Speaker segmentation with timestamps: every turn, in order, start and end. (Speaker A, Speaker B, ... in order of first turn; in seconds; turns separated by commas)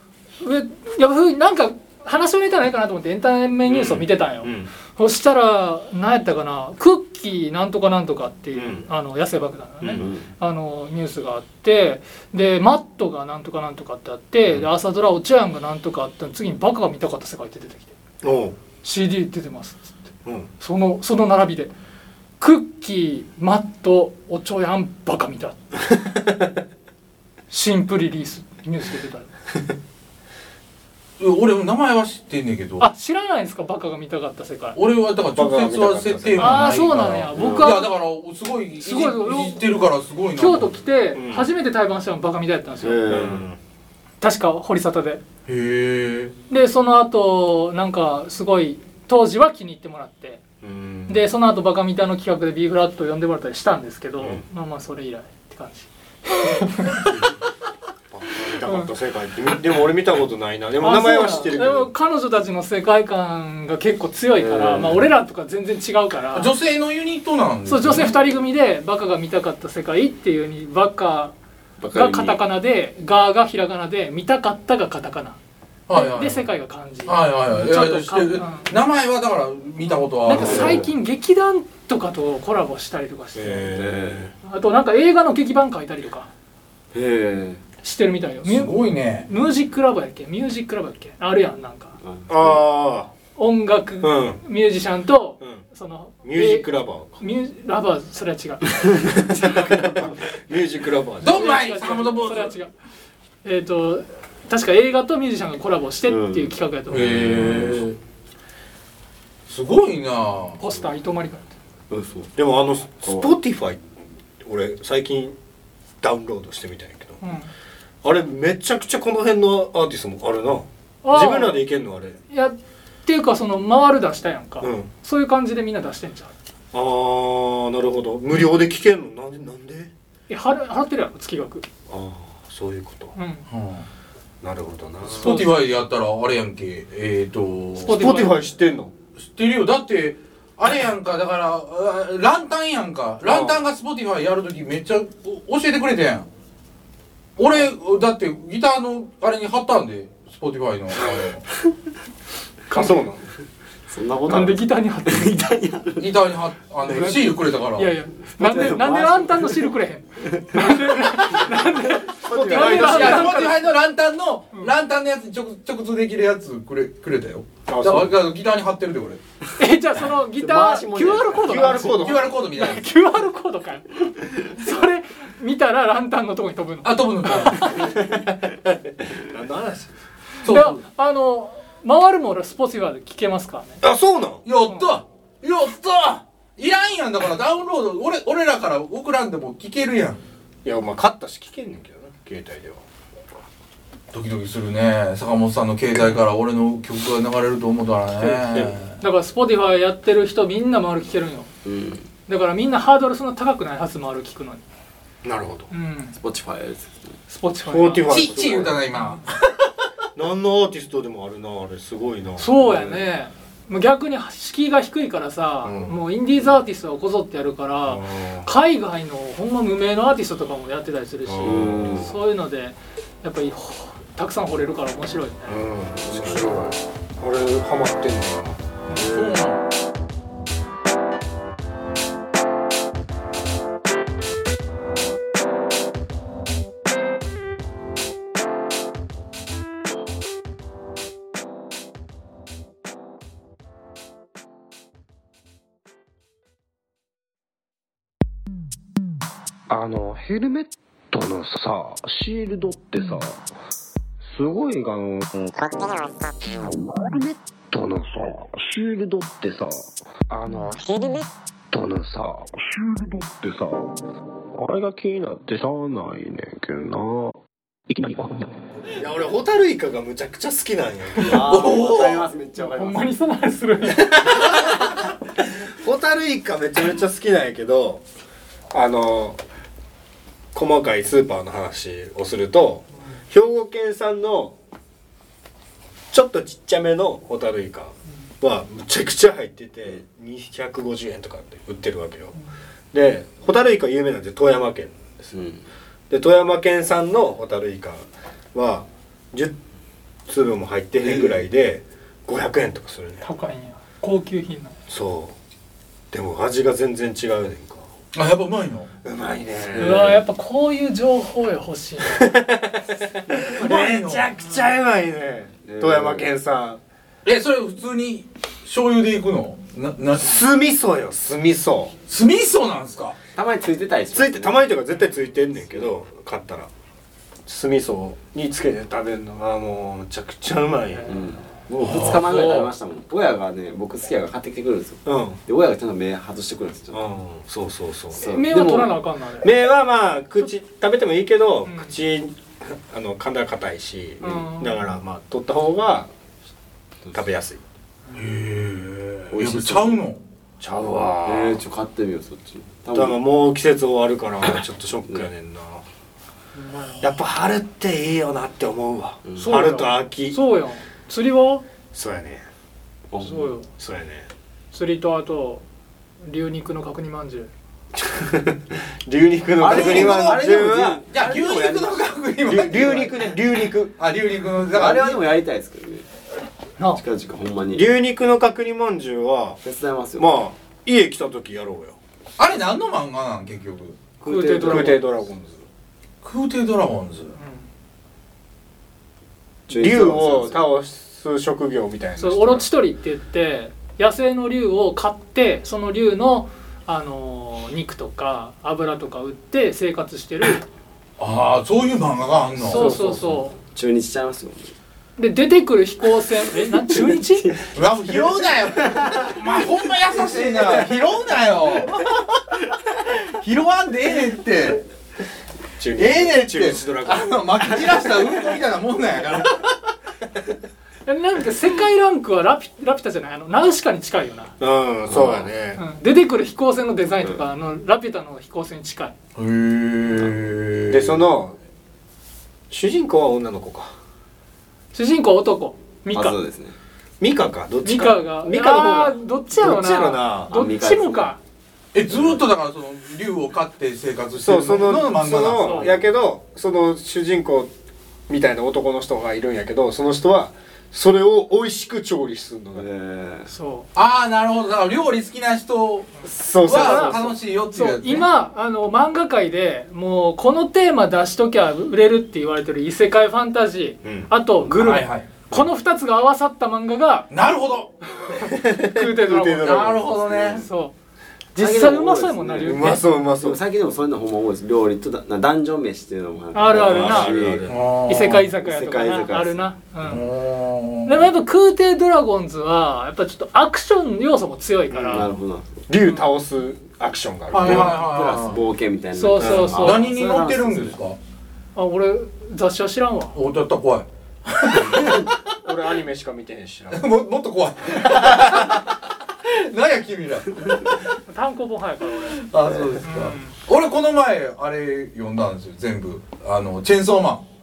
Speaker A: 0.4-17.9, Speaker B: 3.6-4.7, Speaker B: 8.5-8.9, Speaker B: 9.8-10.1, Speaker C: 10.0-10.3, Speaker B: 18.2-18.6, Speaker A: 18.8-20.1, Speaker A: 20.6-21.7, Speaker A: 22.4-25.6, Speaker A: 27.5-29.3, Speaker D: 31.2-32.9, Speaker A: 32.8-34.8, Speaker D: 34.8-40.8, Speaker B: 35.4-36.6, Speaker A: 36.4-37.9, Speaker C: 37.4-37.7, Speaker A: 38.8-39.6, Speaker A: 40.4-43.3, Speaker B: 41.1-41.5, Speaker C: 42.8-43.5, Speaker B: 43.1-43.6, Speaker A: 44.2-45.2, Speaker D: 45.5-46.3, Speaker A: 46.5-50.4, Speaker B: 50.6-51.2, Speaker A: 51.1-57.2, Speaker B: 58.1-61.9, Speaker A: 58.6-58.9, Speaker A: 60.8-66.5, Speaker C: 64.4-65.0, Speaker D: 66.3-68.2, Speaker A: 67.7-71.3, Speaker C: 71.8-72.4, Speaker A: 71.9-75.4, Speaker D: 75.9-76.5, Speaker A: 75.9-78.7, Speaker D: 77.0-80.8, Speaker A: 80.2-83.8, Speaker C: 80.3-80.9, Speaker B: 80.4-80.8, Speaker B: 83.3-84.3, Speaker C: 83.7-84.3, Speaker A: 84.4-86.3, Speaker C: 86.9-87.6, Speaker A: 87.8-88.7, Speaker D: 88.4-89.3, Speaker A: 89.3-92.0, Speaker C: 92.0-92.6, Speaker B: 92.3-93.1, Speaker A: 93.4-99.9, Speaker B: 94.0-94.4, Speaker B: 96.2-97.2, Speaker B: 99.3-101.4, Speaker D: 101.2-102.5, Speaker A: 101.2-102.7, Speaker A: 103.4-107.2, Speaker C: 106.1-106.5, Speaker D: 106.9-108.0, Speaker C: 107.0-107.9, Speaker D: 109.5-110.6, Speaker A: 110.6-111.5, Speaker C: 111.9-112.3, Speaker B: 112.4-113.8, Speaker C: 113.0-113.3, Speaker B: 114.4-115.4, Speaker B: 116.0-117.2, Speaker A: 117.2-117.5, Speaker B: 118.0-122.2, Speaker A: 121.0-121.6, Speaker A: 122.3-126.3, Speaker B: 124.6-124.9, Speaker B: 126.7-129.9, Speaker A: 130.3-131.7, Speaker B: 131.9-133.1, Speaker A: 133.1-133.4, Speaker D: 133.5-133.9, Speaker B: 134.4-135.4, Speaker D: 135.1-138.0, Speaker A: 135.2-135.6, Speaker A: 137.8-138.4, Speaker B: 137.9-138.9, Speaker D: 139.2-146.3, Speaker B: 143.2-143.6, Speaker D: 147.4-151.4, Speaker A: 152.7-153.0, Speaker B: 152.7-153.2, Speaker C: 153.9-156.1, Speaker A: 154.3-155.4, Speaker D: 156.0-157.9, Speaker A: 156.9-163.6, Speaker C: 158.2-159.7, Speaker C: 160.3-161.4, Speaker C: 162.2-163.3, Speaker B: 162.2-163.4, Speaker D: 162.6-169.2, Speaker B: 167.7-168.1, Speaker A: 169.6-177.9, Speaker C: 170.4-172.0, Speaker B: 171.3-172.3, Speaker D: 171.9-172.9, Speaker D: 176.8-177.9, Speaker B: 179.2-179.9, Speaker D: 180.4-180.8, Speaker A: 180.4-183.8, Speaker B: 183.8-184.4, Speaker D: 184.4-190.2, Speaker B: 190.6-192.8, Speaker D: 194.1-199.0, Speaker B: 198.2-198.8, Speaker A: 199.0-201.5, Speaker C: 201.6-202.1, Speaker A: 202.3-204.6, Speaker B: 205.2-205.7, Speaker A: 205.7-206.2, Speaker C: 206.2-207.2, Speaker A: 207.3-208.2, Speaker B: 207.7-208.8, Speaker D: 208.1-209.5, Speaker A: 208.9-209.2, Speaker B: 210.1-212.9, Speaker A: 212.4-225.6, Speaker B: 215.6-215.9, Speaker B: 217.9-218.5, Speaker B: 221.2-221.9, Speaker C: 221.4-222.1, Speaker B: 225.5-228.6, Speaker C: 226.1-226.6, Speaker D: 228.9-229.6, Speaker E: 249.7-253.5, Speaker E: 254.3-264.0, Speaker E: 264.6-268.5, Speaker B: 269.0-271.7, Speaker C: 271.2-273.1, Speaker D: 271.3-272.3, Speaker A: 272.6-274.4, Speaker B: 273.9-274.8, Speaker B: 275.7-278.0, Speaker B: 278.7-279.4, Speaker B: 280.5-284.6, Speaker B: 286.1-292.3, Speaker B: 292.9-295.4, Speaker C: 295.3-295.6, Speaker B: 296.1-299.6, Speaker B: 300.3-303.2, Speaker A: 303.2-304.8, Speaker B: 304.9-305.4, Speaker B: 306.1-307.9, Speaker D: 308.1-308.9, Speaker B: 309.0-310.2, Speaker A: 309.8-312.3, Speaker B: 312.1-316.8, Speaker D: 313.4-314.3, Speaker C: 315.7-316.3, Speaker D: 317.2-320.4, Speaker B: 320.1-321.9, Speaker D: 322.1-323.2, Speaker C: 323.4-324.7, Speaker B: 324.1-326.7, Speaker B: 327.4-331.2, Speaker C: 331.1-337.1, Speaker D: 331.8-332.7, Speaker B: 335.0-335.4, Speaker B: 336.9-338.3, Speaker C: 338.2-338.9, Speaker A: 338.2-339.5, Speaker B: 339.4-346.1, Speaker A: 341.6-341.9, Speaker A: 344.2-344.8, Speaker B: 347.1-347.6, Speaker D: 348.1-350.2, Speaker C: 349.3-350.0, Speaker B: 350.6-351.6, Speaker C: 351.2-353.2, Speaker B: 352.9-355.8, Speaker A: 356.6-357.0, Speaker B: 357.0-360.4, Speaker C: 359.3-359.6, Speaker A: 359.4-361.6, Speaker B: 361.9-362.4, Speaker C: 363.1-363.5, Speaker A: 363.2-363.7, Speaker B: 363.8-364.3, Speaker A: 364.7-365.6, Speaker A: 366.2-367.5, Speaker B: 368.0-371.9, Speaker C: 369.6-371.9, Speaker D: 369.6-373.4, Speaker B: 372.4-373.9, Speaker D: 373.9-375.3, Speaker C: 374.7-376.1, Speaker C: 377.0-377.9, Speaker B: 377.7-379.6, Speaker C: 379.6-380.3, Speaker B: 380.2-382.0, Speaker D: 382.4-384.0, Speaker B: 384.2-385.6, Speaker A: 384.2-385.1, Speaker D: 386.2-387.3, Speaker A: 387.4-387.7, Speaker C: 389.7-390.6, Speaker B: 389.7-392.7, Speaker A: 392.2-400.6, Speaker D: 401.2-403.0, Speaker A: 402.6-403.5, Speaker C: 402.6-404.7, Speaker A: 405.2-407.6, Speaker C: 406.9-408.2, Speaker D: 407.7-412.2, Speaker C: 408.8-409.4, Speaker C: 410.2-410.8, Speaker D: 413.1-414.8, Speaker B: 415.8-417.9, Speaker D: 416.0-419.7, Speaker A: 421.0-424.5, Speaker B: 424.6-425.8, Speaker A: 425.7-429.1, Speaker D: 429.4-431.2, Speaker B: 430.9-431.6, Speaker B: 432.7-433.9, Speaker A: 434.9-436.4, Speaker C: 436.1-436.8, Speaker B: 437.2-440.5, Speaker A: 437.8-441.4, Speaker C: 440.5-441.3, Speaker D: 441.9-445.9, Speaker B: 444.4-447.7, Speaker A: 445.6-445.9, Speaker B: 448.3-452.9, Speaker C: 452.7-453.5, Speaker A: 453.5-453.9, Speaker D: 453.9-456.1, Speaker B: 456.2-457.4, Speaker D: 456.6-458.2, Speaker A: 456.6-467.3, Speaker B: 464.0-464.3, Speaker D: 464.7-465.3, Speaker D: 467.3-467.9, Speaker A: 468.2-470.0, Speaker B: 468.4-470.6, Speaker D: 469.6-470.6, Speaker A: 470.5-470.9, Speaker A: 471.5-473.0, Speaker C: 471.6-477.6, Speaker B: 472.6-473.6, Speaker A: 476.5-477.4, Speaker B: 476.7-477.8, Speaker D: 477.7-478.5, Speaker A: 478.1-480.3, Speaker C: 478.6-479.6, Speaker D: 480.0-481.3, Speaker A: 481.1-485.3, Speaker B: 484.9-485.3, Speaker C: 485.1-485.8, Speaker B: 485.9-487.9, Speaker D: 487.5-488.6, Speaker C: 487.6-491.0, Speaker A: 489.1-490.1, Speaker B: 489.4-489.7, Speaker D: 489.7-491.2, Speaker A: 491.7-493.4, Speaker D: 493.4-495.3, Speaker B: 495.6-497.1, Speaker D: 496.9-501.0, Speaker B: 498.1-498.6, Speaker A: 501.3-502.4, Speaker D: 502.4-507.4, Speaker C: 502.6-503.0, Speaker A: 503.0-503.6